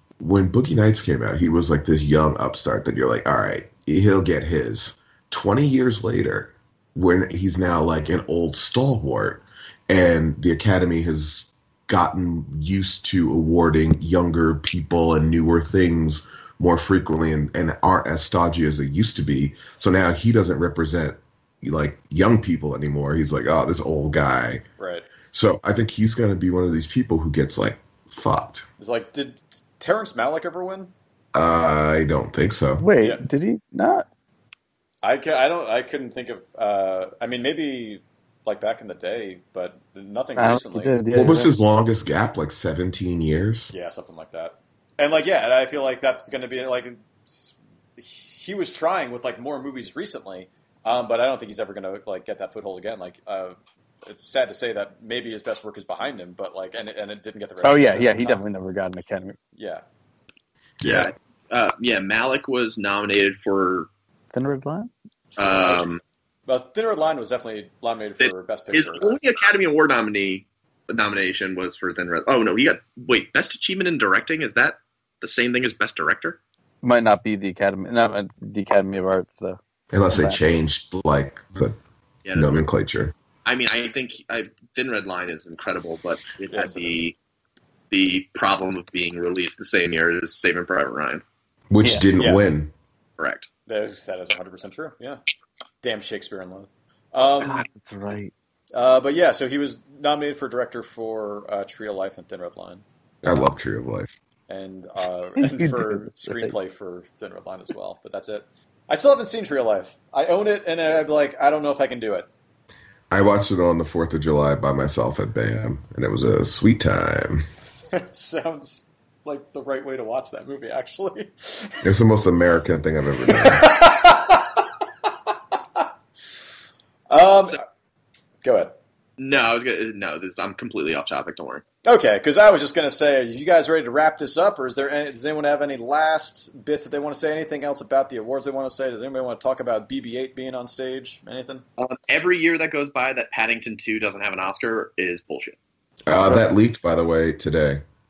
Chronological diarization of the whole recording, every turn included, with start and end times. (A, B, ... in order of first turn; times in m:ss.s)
0:00.2-0:24.6 A
0:24.8-0:25.1 B
0:25.3-0:28.7 A
0:28.8-0:30.9 B
0:31.3-0:32.9 A
0:32.8-0:34.1 C
0:35.0-0:41.0 B
0:40.4-0:41.6 C
0:41.1-0:43.7 A
0:43.7-0:58.4 B
0:57.6-0:59.4 C
0:59.6-0:59.8 B
1:00.8-1:01.1 A
1:00.9-1:03.9 D
1:04.3-1:04.9 C
1:05.3-1:09.2 B
1:05.4-1:06.0 D
1:08.2-1:16.4 D
1:16.8-1:19.6 C
1:19.9-1:21.8 A
1:20.1-1:20.4 C
1:22.2-1:22.6 D
1:22.4-1:23.1 A
1:23.4-1:27.2 D
1:26.5-1:27.0 B
1:27.9-1:31.2 D
1:31.7-1:32.7 A
1:32.2-1:32.4 B
1:33.2-1:33.5 D
1:33.7-1:35.2 B
1:35.8-1:37.7 B
1:37.4-1:38.3 C
1:38.7-1:42.8 B
1:43.2-1:44.1 A
1:44.5-1:52.3 B
1:45.4-1:46.5 C
1:53.1-1:57.5 A
1:57.9-2:01.8 B
2:01.8-2:03.7 A
2:03.2-2:04.6 B
2:07.1-2:07.6 B
2:08.4-2:08.8 B
2:09.2-2:11.6 D
2:11.8-2:21.6 B
2:21.8-2:25.6 D
2:26.1-2:27.8 A